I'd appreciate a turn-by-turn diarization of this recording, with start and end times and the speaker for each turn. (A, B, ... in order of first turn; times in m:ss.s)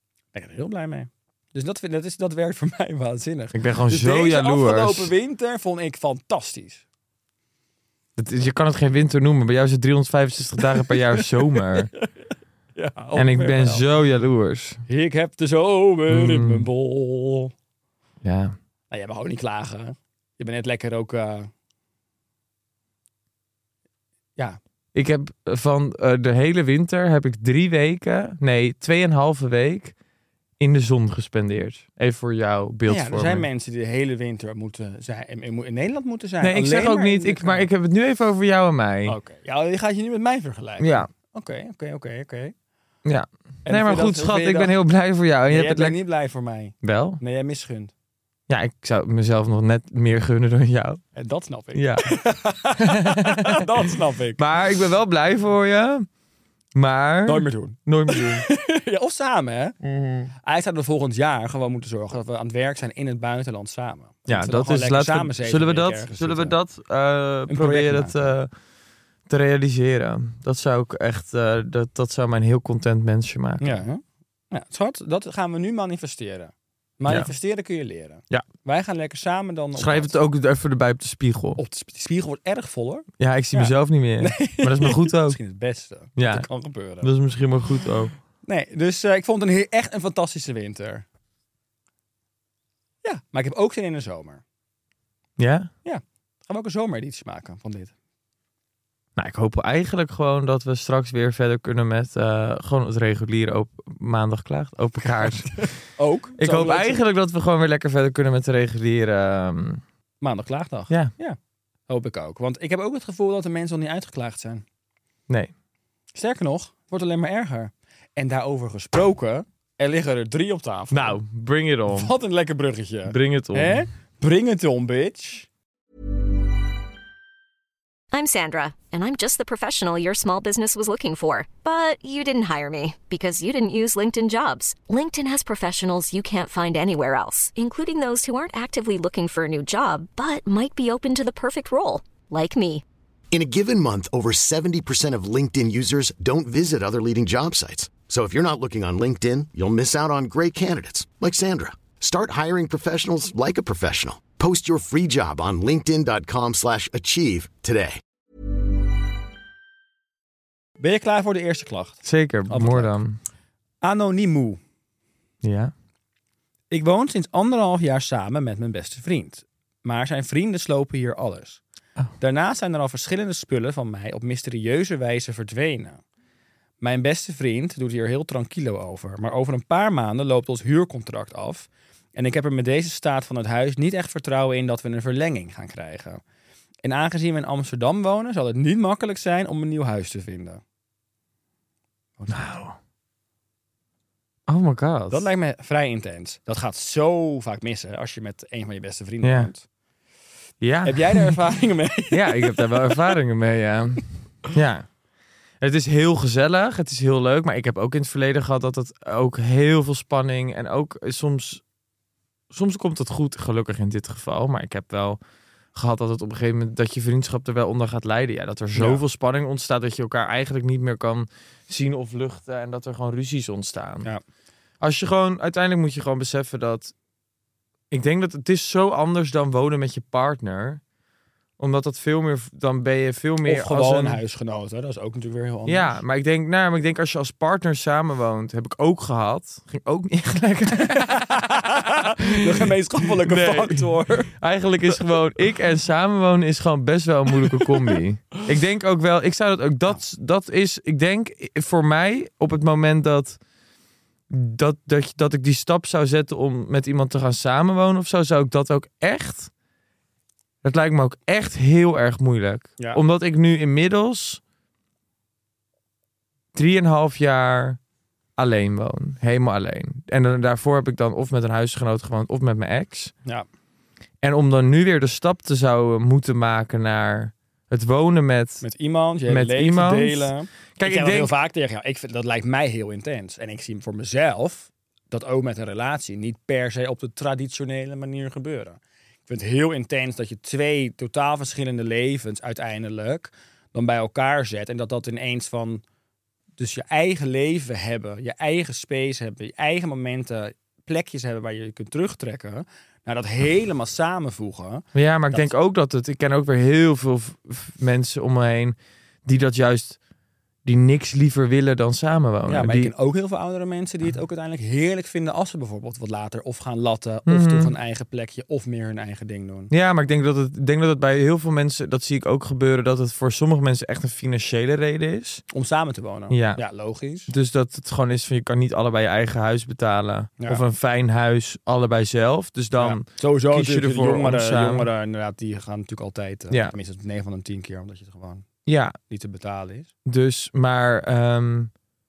0:00.3-0:06.8 A
0:03.5-0:05.1 B
0:08.2-0:11.9 B
0:10.7-0:12.1 A
0:12.8-0:13.8 A
0:13.1-0:14.8 B
0:14.9-0:17.5 A
0:16.1-0:16.7 B
0:18.2-0:18.6 B
0:18.9-0:21.5 A
0:24.9-0:29.9 B
0:30.6-0:33.5 B
0:32.9-0:37.7 A
0:36.4-0:39.2 B
0:39.1-0:42.5 A
0:40.8-0:41.1 B
0:43.0-0:46.0 B
0:43.6-0:44.7 A
0:45.5-0:47.9 A
0:46.8-0:47.2 B
0:48.5-0:51.0 B
0:51.1-0:54.4 A
0:51.7-0:52.2 B
0:52.8-0:53.7 B
0:54.4-0:56.0 B
0:56.7-0:58.4 B
0:57.2-0:59.8 A
0:59.8-1:00.3 B
1:00.4-1:06.6 A
1:04.3-1:08.5 B
1:07.5-1:08.3 A
1:09.3-1:13.8 B
1:13.6-1:20.1 A
1:19.8-1:21.6 B
1:21.6-1:27.1 A
1:23.2-1:25.4 B
1:26.2-1:26.5 B
1:27.0-1:28.1 B
1:28.4-1:31.0 A
1:33.0-1:34.4 A
1:35.4-1:35.7 B
1:35.8-1:37.9 A
1:39.2-1:45.8 B
1:45.2-1:47.0 A
1:46.4-1:49.8 B
1:50.2-1:54.6 A
1:56.1-2:01.2 A
2:00.9-2:02.1 B
2:01.9-2:05.5 A
2:03.0-2:03.8 B
2:08.1-2:22.8 C
2:23.3-2:38.0 D
2:40.8-2:42.9 A
2:42.0-2:43.2 B
2:43.8-2:44.6 A
2:45.4-2:45.7 B
2:46.7-2:51.6 A
2:52.2-2:56.0 A
2:56.8-3:06.2 A
3:06.8-3:10.6 A
3:12.2-3:12.5 A
3:12.3-3:12.8 B
3:14.5-3:15.3 B
3:15.1-3:19.6 A
3:19.2-3:19.5 B
3:20.6-3:21.4 B
3:20.8-3:23.1 A
3:22.1-3:24.9 B
3:25.6-3:31.6 B
3:32.5-3:35.2 B
3:35.7-3:44.1 B
3:38.7-3:39.0 A
3:44.8-3:46.9 B
3:47.9-3:50.8 B
3:51.6-3:54.2 B
3:53.4-3:56.0 A
3:55.6-4:02.7 B
4:00.8-4:04.3 A
4:03.2-4:13.4 B
4:07.4-4:08.0 A
4:14.3-4:19.5 B
4:20.6-4:24.4 B
4:26.5-4:27.8 B
4:28.4-4:33.1 B
4:34.2-4:38.6 B
4:38.6-4:55.8 A
4:39.3-4:41.3 B
4:56.6-5:05.5 A
5:04.9-5:10.0 B
5:10.6-5:12.9 B
5:12.5-5:19.7 A
5:17.3-5:17.7 B
5:19.7-5:25.4 B
5:25.5-5:27.3 A
5:26.3-5:26.6 B
5:27.3-5:34.9 B
5:32.8-5:38.4 A
5:38.6-5:38.9 B
5:39.1-5:39.9 A
5:40.0-5:41.7 B